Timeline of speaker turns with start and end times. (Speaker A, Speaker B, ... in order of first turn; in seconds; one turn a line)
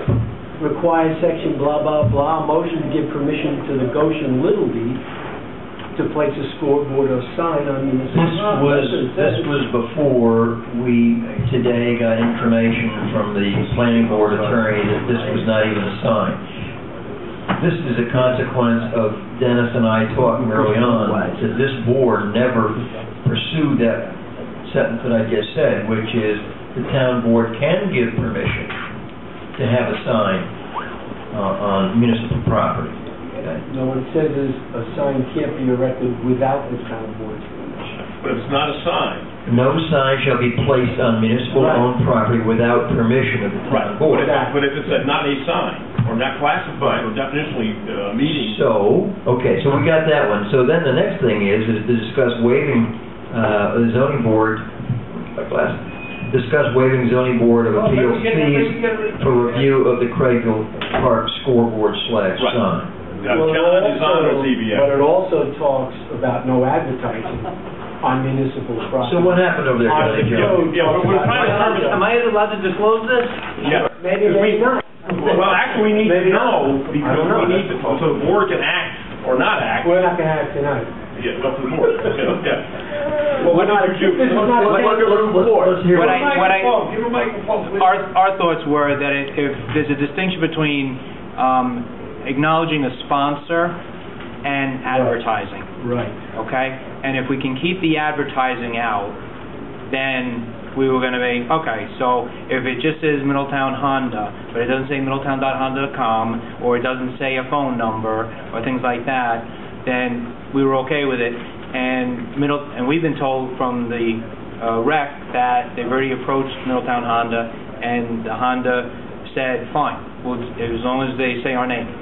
Speaker A: 0.6-5.0
Speaker A: 5.9-9.6
Speaker B: 8.1-16.4
Speaker B: 17.6-28.7
Speaker A: 20.7-21.2
Speaker B: 29.5-30.5
Speaker B: 31.3-33.6
Speaker A: 33.6-38.1
Speaker C: 38.1-39.3
Speaker B: 39.4-44.4
Speaker A: 41.5-41.9
Speaker C: 43.7-48.6
Speaker A: 44.1-45.0
Speaker B: 48.3-62.9
Speaker C: 63.2-64.9
Speaker A: 63.3-72.0
Speaker B: 69.0-70.7
Speaker C: 70.4-72.0
Speaker D: 71.2-73.8
Speaker C: 73.6-80.1
Speaker A: 73.9-77.9
Speaker A: 79.8-80.9
Speaker C: 81.1-82.7
Speaker C: 83.3-84.5
Speaker A: 83.5-85.5
Speaker E: 84.1-87.9
Speaker B: 84.3-86.4
Speaker D: 85.9-86.9
Speaker D: 87.6-93.8
Speaker D: 94.4-95.7
Speaker A: 94.9-95.2
Speaker A: 95.8-96.2
Speaker D: 96.3-99.2
Speaker D: 99.9-121.9